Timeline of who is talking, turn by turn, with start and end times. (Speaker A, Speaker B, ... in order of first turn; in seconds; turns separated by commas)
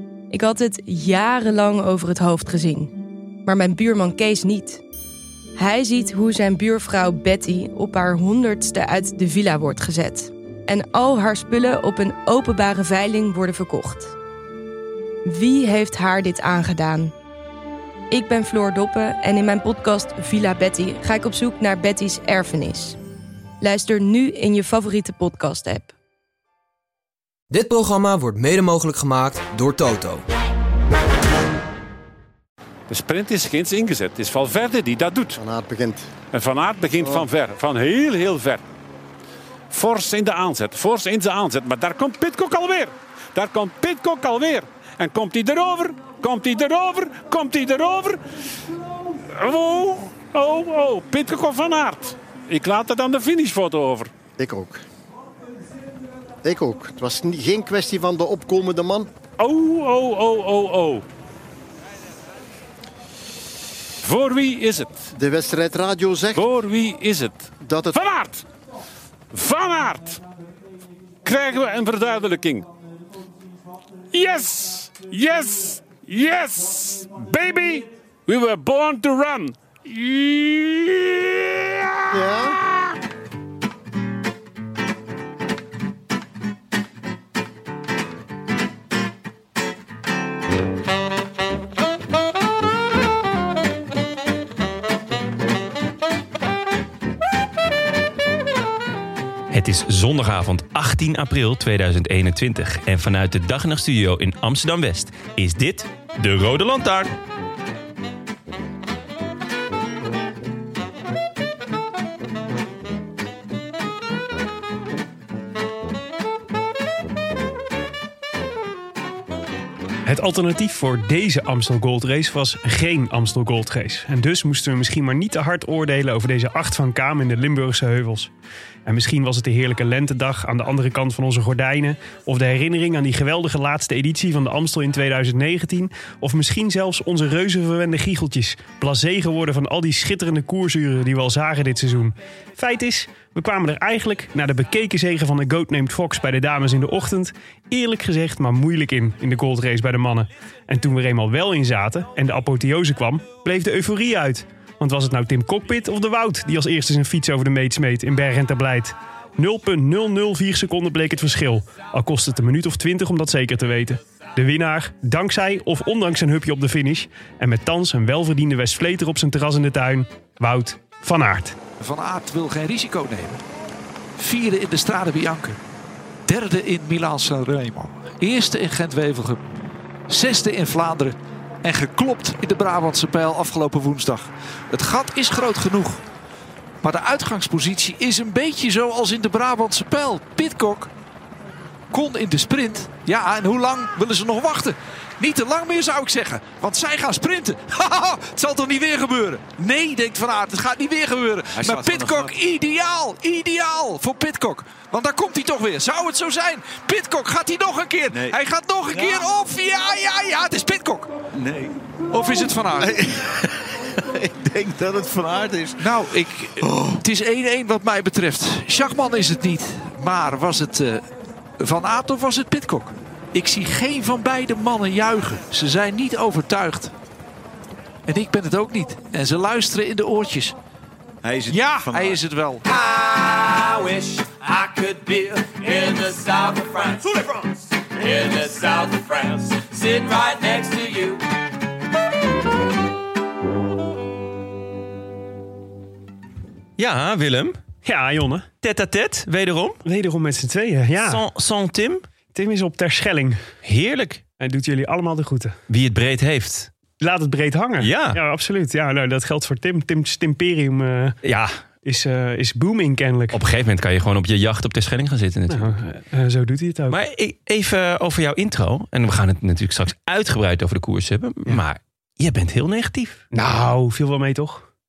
Speaker A: 0.3-2.9, Speaker A: 3.5-4.8, Speaker A: 5.6-14.1, Speaker A: 15.2-17.1, Speaker A: 18.1-23.0, Speaker A: 23.6-25.9, Speaker B: 27.5-30.2, Speaker C: 32.9-35.4, Speaker D: 35.4-36.1, Speaker C: 36.3-38.6, Speaker D: 37.0-37.2, Speaker C: 39.7-48.2, Speaker C: 49.3-54.1, Speaker D: 54.4-54.8, Speaker D: 56.4-59.1, Speaker C: 59.4-61.0, Speaker C: 64.0-65.1, Speaker D: 65.1-66.5, Speaker C: 66.3-68.4, Speaker D: 67.6-68.0, Speaker C: 69.3-70.2, Speaker C: 71.2-72.7, Speaker C: 74.1-82.9, Speaker D: 82.1-82.5, Speaker E: 99.5-107.1, Speaker F: 120.0-128.3, Speaker F: 128.8-171.6, Speaker G: 171.8-173.4, Speaker G: 174.2-175.6, Speaker G: 176.3-179.4, Speaker G: 180.1-186.0, Speaker G: 186.8-190.9, Speaker G: 191.9-211.1, Speaker H: 201.5-202.3, Speaker H: 208.1-208.4, Speaker H: 208.9-209.2, Speaker H: 211.3-211.8, Speaker G: 212.1-213.0, Speaker H: 212.8-215.8, Speaker G: 215.8-221.1, Speaker H: 216.6-217.0, Speaker G: 221.6-226.9, Speaker G: 228.1-230.5, Speaker H: 231.2-232.2, Speaker G: 231.5-232.6, Speaker I: 232.7-241.2, Speaker A: 240.0-240.4, Speaker E: 246.8-247.6, Speaker F: 247.8-248.5, Speaker E: 248.6-249.8, Speaker F: 249.8-251.2, Speaker E: 251.0-252.1, Speaker F: 252.3-253.4, Speaker E: 253.6-254.2, Speaker F: 254.4-255.6, Speaker E: 255.7-256.7, Speaker F: 257.0-261.2, Speaker E: 257.8-258.2, Speaker E: 261.2-261.6, Speaker F: 261.8-263.4, Speaker E: 263.3-265.8, Speaker F: 265.5-267.0, Speaker E: 266.9-273.3, Speaker F: 273.3-274.6